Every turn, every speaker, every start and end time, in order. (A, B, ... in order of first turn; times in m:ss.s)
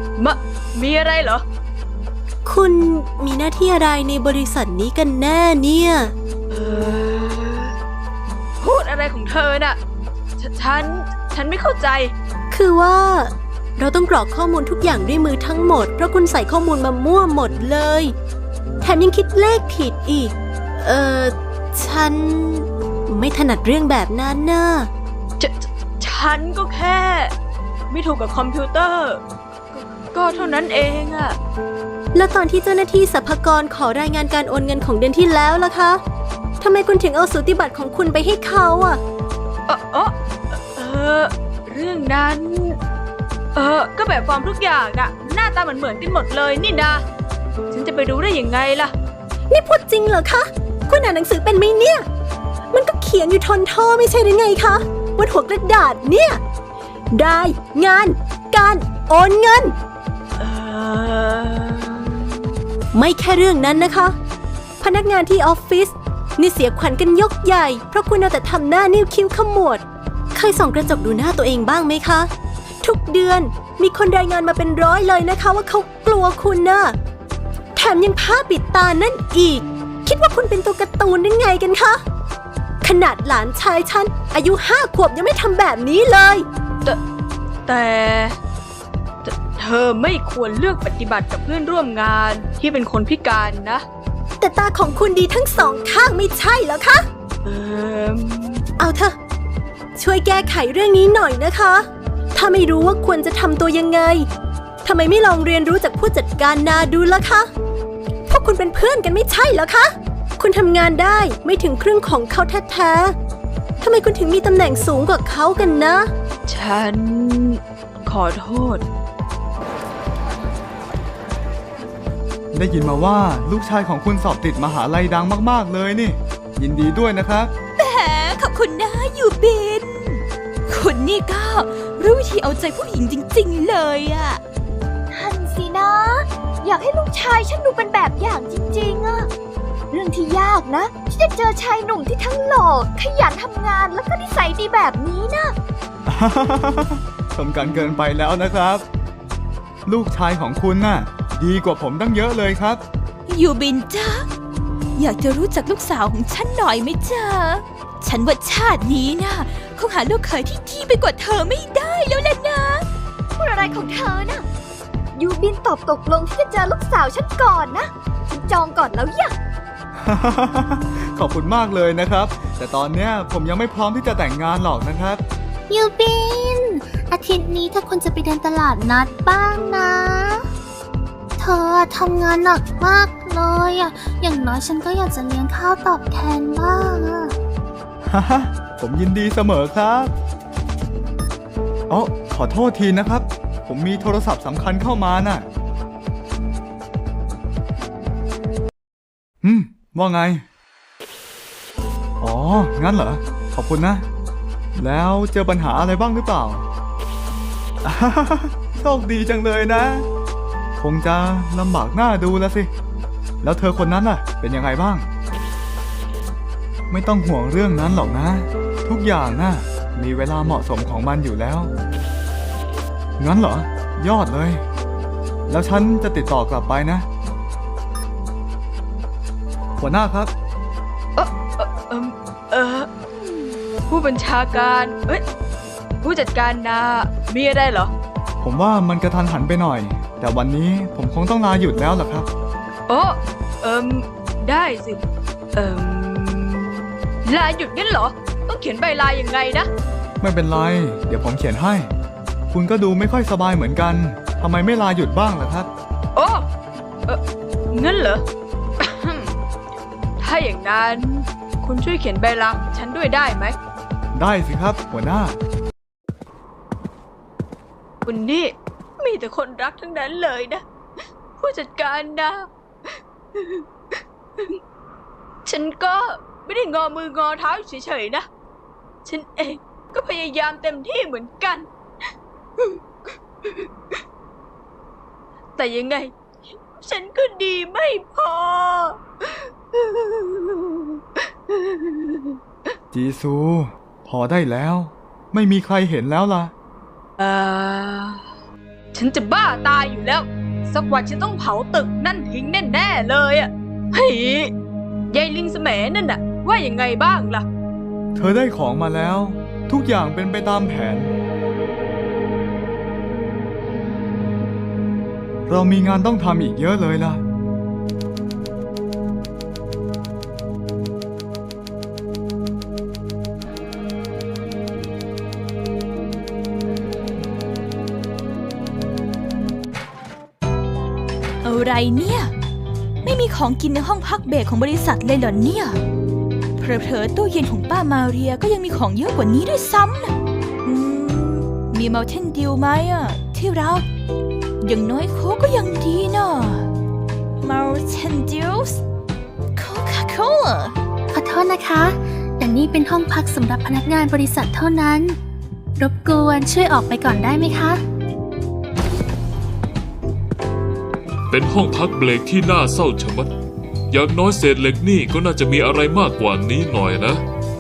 0:00.2-0:01.4 A
0:02.4-0:06.1 B
0:06.5-0:07.7 A
0:08.6-0:09.8 A
0:10.4-0:12.1 A
0:12.5-0:18.1 B
0:18.8-0:24.9 B
0:25.4-0:27.3 A
0:27.9-0:29.2 A
0:30.1-0:31.4 A
0:32.1-0:36.0 B
0:36.6-0:39.0 B
0:39.7-0:42.8 A
0:43.5-0:47.0 A
0:47.7-0:48.9 A
0:49.5-0:52.0 B
0:52.7-0:56.4 B
0:57.1-0:59.7 B
1:00.4-1:02.3 A
1:02.9-1:04.2 B
1:04.8-1:12.3 B
1:12.8-1:17.0 B
1:17.8-1:22.0 B
1:22.8-1:26.4 B
1:27.6-1:28.4 A
1:29.2-1:33.8 A
1:34.4-1:37.1 B
1:37.4-1:38.6 A
1:38.8-1:39.2 B
1:40.0-1:44.3 B
1:44.8-1:47.5 B
1:48.3-1:53.1 B
1:53.8-1:56.1 B
1:56.5-1:58.8 A
2:02.5-2:07.5 C
2:07.8-2:14.4 D
2:15.1-2:19.3 E
2:19.9-2:25.5 E
2:26.0-2:28.8 C
2:29.8-2:32.8 C
2:33.3-2:34.3 D
2:35.0-2:42.8 D
2:43.4-2:44.4 E
2:45.1-2:49.3 E
2:50.0-2:55.2 C
2:55.7-3:00.4 F
3:01.4-3:07.3 F
3:08.0-3:10.1 C
3:11.9-3:15.5 C
3:19.4-3:20.4 C
3:22.2-3:24.1 C
3:24.8-3:26.6 C
3:27.8-3:30.1 C
3:30.8-3:32.7 C
3:33.4-3:35.1 C
3:36.9-3:41.7 C
3:43.2-3:44.6 C
3:45.5-3:47.1 C
3:49.8-3:50.3 C
3:51.2-3:52.9 A
3:53.9-3:55.2 A
3:56.0-3:57.9 A
3:58.4-4:02.3 C
4:02.9-4:05.0 A
4:05.5-4:09.7 A
4:10.2-4:11.9 C
4:12.5-4:15.7 C
4:16.2-4:16.5 A
4:17.7-4:18.2 A
4:18.8-4:19.3 A
4:20.2-4:23.6 A
4:24.1-4:25.4 C
4:28.0-4:30.6 A
4:31.4-4:32.5 A
4:33.3-4:33.6 A
4:35.4-4:38.3 A
4:39.0-4:41.7 A
4:45.6-4:46.1 A
4:46.8-4:52.3 A
4:52.9-4:56.5 C
4:57.2-4:58.2 A
4:58.9-5:04.5 A
5:05.1-5:07.4 A
5:08.1-5:11.1 C
5:15.5-5:17.2 C
5:31.4-5:32.3 D
5:33.0-5:35.8 D
5:36.6-5:40.1 D
5:40.6-5:43.8 D
5:44.6-5:46.7 D
5:47.4-5:48.8 D
5:49.5-5:50.8 D
5:51.1-5:55.2 F
5:55.8-5:57.8 F
6:01.3-6:03.3 G
6:03.9-6:07.2 G